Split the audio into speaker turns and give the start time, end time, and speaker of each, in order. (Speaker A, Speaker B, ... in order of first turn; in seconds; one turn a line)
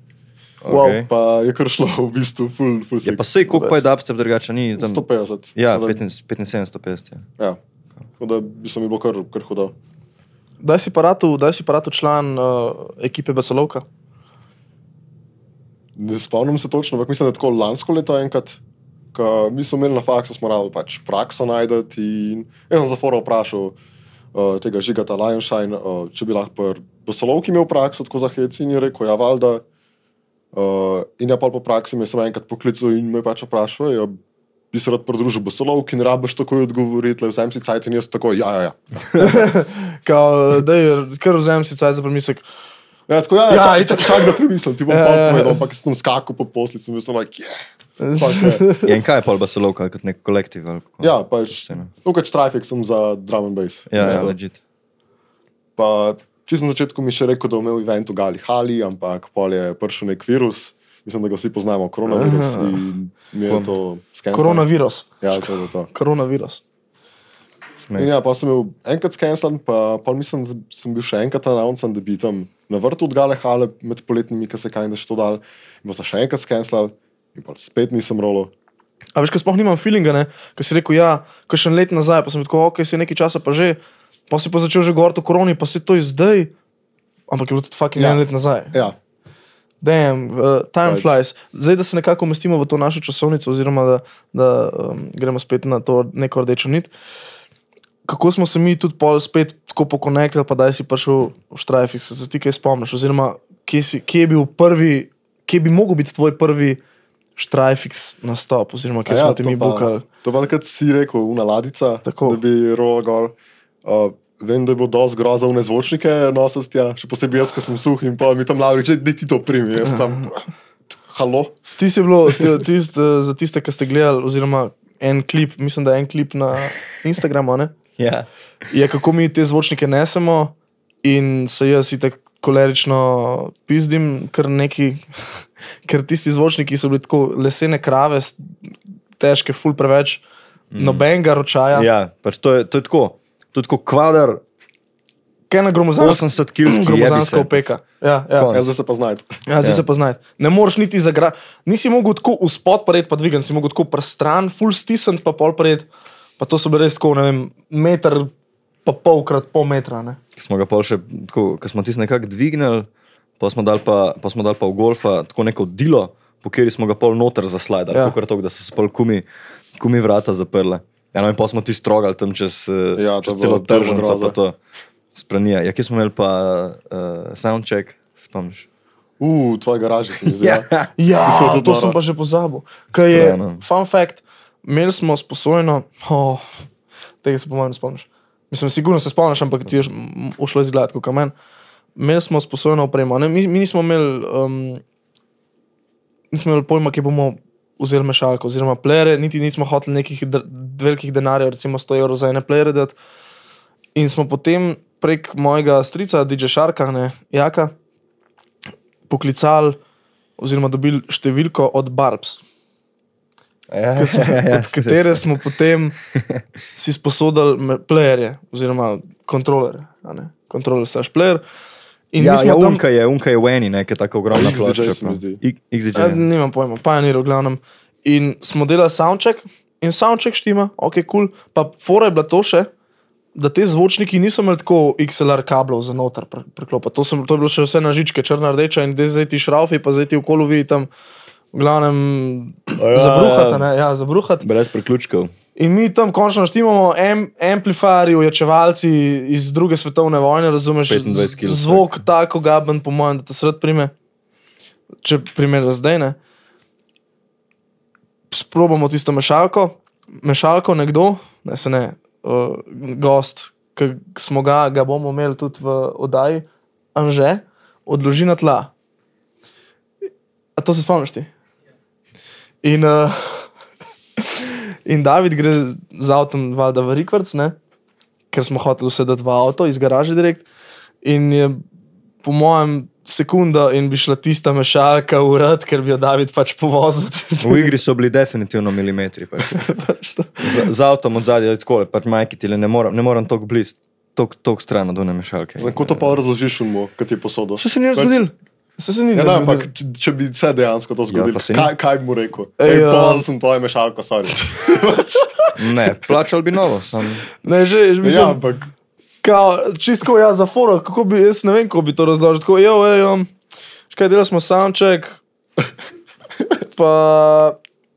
Speaker A: 0.6-1.1
Speaker B: 0.7-1.0
Speaker C: 0.9-3.8
Speaker A: 3.0-5.0
Speaker C: 4.8-6.0
Speaker A: 5.5-7.2
Speaker C: 8.2-9.7
Speaker B: 10.6-13.8
Speaker C: 16.0-18.6
Speaker C: 19.1-23.8
Speaker C: 24.3-29.6
Speaker C: 30.5-34.2
Speaker C: 34.7-39.4
Speaker B: 39.2-42.4
Speaker C: 43.1-47.6
Speaker B: 43.5-45.6
Speaker B: 48.0-48.9
Speaker C: 48.2-48.7
Speaker A: 48.8-51.9
Speaker C: 51.0-54.4
Speaker A: 53.9-54.6
Speaker B: 54.0-54.3
Speaker C: 55.8-64.7
Speaker B: 62.1-62.8
Speaker B: 64.3-66.6
Speaker C: 65.2-65.9
Speaker C: 68.0-78.5
Speaker B: 79.2-83.8
Speaker B: 84.3-86.5
Speaker B: 87.3-88.8
Speaker C: 88.0-88.2
Speaker B: 89.8-96.9
Speaker C: 90.8-91.1
Speaker B: 98.0-106.8
Speaker B: 107.4-110.1
Speaker C: 109.1-120.4
Speaker B: 112.1-112.4
Speaker C: 121.0-121.6
Speaker B: 121.8-127.7
Speaker A: 128.0-128.3
Speaker B: 128.7-138.4
Speaker B: 139.2-140.2
Speaker A: 140.7-141.1
Speaker B: 140.8-141.9
Speaker A: 141.7-144.4
Speaker B: 145.5-148.5
Speaker A: 146.0-147.7
Speaker A: 148.3-148.7
Speaker C: 148.5-149.4
Speaker B: 149.5-155.9
Speaker B: 156.4-158.3
Speaker B: 158.8-160.2
Speaker A: 160.4-162.9
Speaker A: 163.4-169.3
Speaker A: 169.8-174.6
Speaker C: 173.0-174.4
Speaker A: 175.1-178.7
Speaker C: 179.2-182.0
Speaker A: 180.4-180.9
Speaker B: 181.0-186.6
Speaker A: 182.9-183.6
Speaker B: 187.2-191.3
Speaker B: 192.0-194.8
Speaker B: 196.3-202.9
Speaker B: 203.9-207.7
Speaker B: 209.1-209.8
Speaker B: 210.4-212.4
Speaker A: 213.7-215.2
Speaker B: 214.0-216.0
Speaker A: 216.2-216.4
Speaker B: 216.8-221.4
Speaker B: 222.1-222.8
Speaker A: 222.2-226.3
Speaker C: 224.3-225.4
Speaker B: 225.9-232.7
Speaker B: 233.3-240.9
Speaker B: 241.5-244.5
Speaker A: 242.8-243.7
Speaker A: 244.4-245.3
Speaker B: 245.6-253.9
Speaker A: 250.9-252.0
Speaker B: 255.0-256.2
Speaker B: 258.3-268.7
Speaker B: 270.6-271.3
Speaker B: 272.6-273.5
Speaker B: 274.2-277.6
Speaker B: 278.3-280.4
Speaker B: 281.0-281.6
Speaker B: 282.2-287.7
Speaker A: 287.4-289.7
Speaker B: 289.4-290.7
Speaker A: 290.4-296.1
Speaker C: 295.6-298.2
Speaker A: 297.6-298.3
Speaker B: 298.8-299.7
Speaker C: 299.1-305.3
Speaker A: 301.1-301.7
Speaker B: 302.6-303.2
Speaker A: 305.6-307.3
Speaker B: 307.4-308.4
Speaker C: 308.0-308.7
Speaker B: 309.2-313.3
Speaker B: 313.9-315.2
Speaker B: 316.6-317.6